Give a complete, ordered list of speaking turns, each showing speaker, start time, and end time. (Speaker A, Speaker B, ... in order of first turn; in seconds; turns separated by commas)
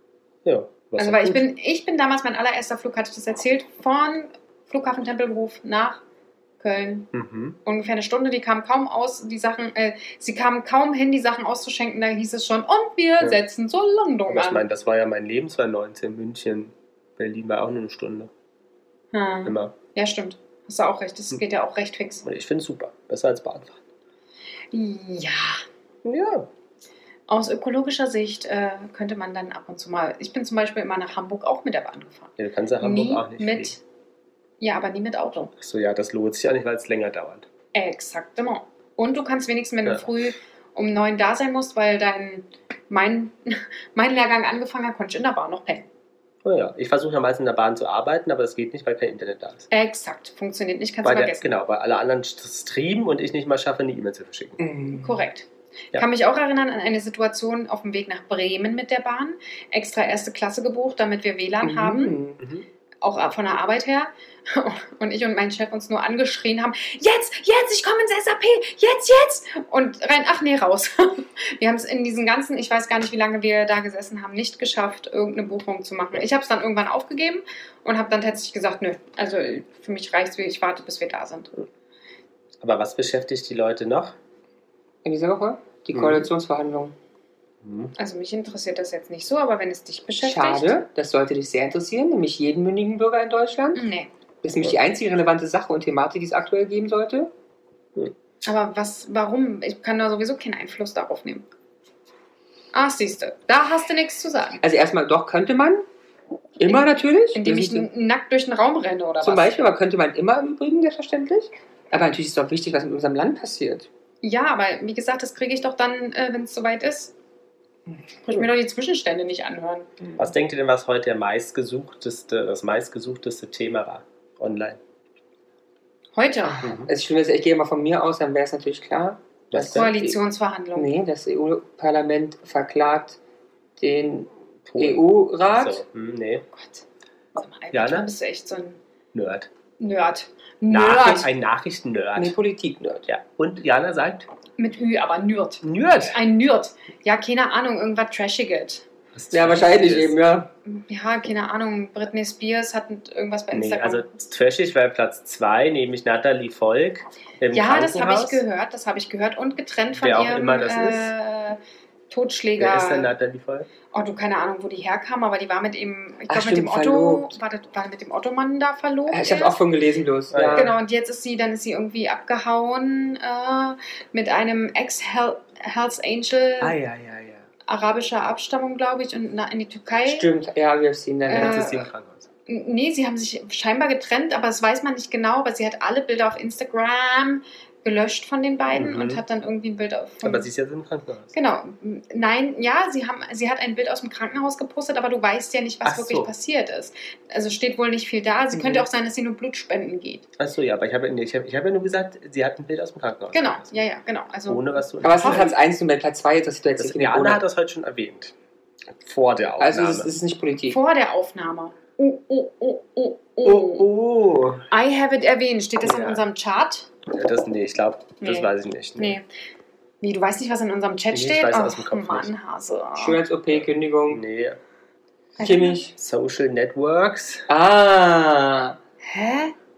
Speaker A: 0.4-1.4, Speaker B: 1.0-6.0, Speaker B: 6.6-7.1, Speaker A: 7.1-7.6, Speaker B: 7.6-14.6, Speaker A: 14.3-18.3, Speaker B: 19.1-22.2, Speaker A: 19.4-19.7, Speaker A: 22.2-23.8, Speaker B: 24.7-25.6, Speaker A: 26.0-26.5, Speaker B: 27.3-33.8, Speaker A: 32.4-33.8, Speaker B: 34.6-35.5, Speaker A: 35.6-37.5, Speaker B: 37.7-45.8, Speaker A: 39.8-40.1, Speaker A: 46.4-49.7, Speaker B: 49.7-51.5, Speaker A: 51.0-54.6, Speaker C: 54.6-55.2, Speaker B: 55.0-62.2, Speaker C: 61.6-62.4, Speaker A: 62.4-62.6, Speaker B: 63.0-81.6, Speaker A: 82.6-84.2, Speaker C: 85.0-86.9, Speaker A: 85.9-86.3, Speaker A: 87.6-87.9, Speaker B: 88.0-90.8, Speaker C: 90.2-93.8, Speaker B: 93.7-94.1, Speaker C: 94.4-97.3, Speaker B: 98.4-101.4, Speaker B: 102.7-104.6, Speaker C: 104.6-105.8, Speaker C: 106.6-107.8, Speaker B: 107.3-109.5, Speaker C: 109.2-113.9, Speaker B: 114.2-117.1, Speaker B: 118.3-119.9, Speaker A: 120.2-124.8, Speaker B: 126.2-126.8, Speaker A: 126.6-126.9, Speaker C: 126.7-130.2, Speaker A: 129.5-129.9, Speaker B: 129.6-130.9, Speaker C: 130.7-133.2, Speaker C: 133.8-135.8, Speaker A: 134.7-136.4, Speaker B: 136.5-136.8, Speaker B: 137.3-138.8, Speaker A: 137.7-138.1, Speaker A: 139.1-139.5, Speaker B: 139.8-141.3, Speaker A: 140.7-142.3, Speaker C: 142.2-143.1, Speaker A: 143.1-144.3, Speaker B: 144.6-148.8, Speaker A: 145.6-146.2, Speaker A: 149.1-150.2, Speaker C: 149.3-150.5, Speaker B: 150.7-154.1, Speaker A: 153.5-158.4, Speaker B: 157.5-163.1, Speaker A: 160.0-161.1, Speaker A: 162.6-163.7, Speaker B: 163.9-169.6, Speaker C: 166.3-167.3, Speaker C: 169.1-170.7, Speaker A: 170.3-170.7, Speaker B: 170.5-176.8, Speaker A: 176.6-177.4, Speaker B: 177.7-180.3, Speaker C: 180.1-181.8, Speaker B: 181.3-181.8, Speaker A: 181.3-182.2, Speaker B: 182.5-190.5, Speaker A: 188.7-189.2, Speaker A: 190.2-191.3, Speaker B: 191.3-200.2, Speaker A: 195.8-196.3, Speaker C: 198.5-198.9, Speaker A: 200.4-203.8, Speaker B: 203.3-205.6, Speaker A: 204.5-205.5, Speaker C: 205.0-207.4, Speaker A: 206.8-208.3, Speaker A: 209.0-210.1, Speaker C: 209.6-210.8, Speaker B: 210.7-213.9, Speaker A: 213.4-214.7, Speaker B: 214.7-216.9, Speaker A: 215.8-216.2, Speaker A: 217.1-219.2, Speaker B: 218.2-219.2, Speaker B: 220.0-223.2, Speaker A: 221.1-222.3, Speaker C: 223.0-224.2, Speaker A: 223.5-224.6, Speaker B: 225.4-225.8, Speaker C: 225.4-225.9, Speaker A: 225.9-227.5, Speaker C: 227.5-228.8, Speaker B: 229.0-229.5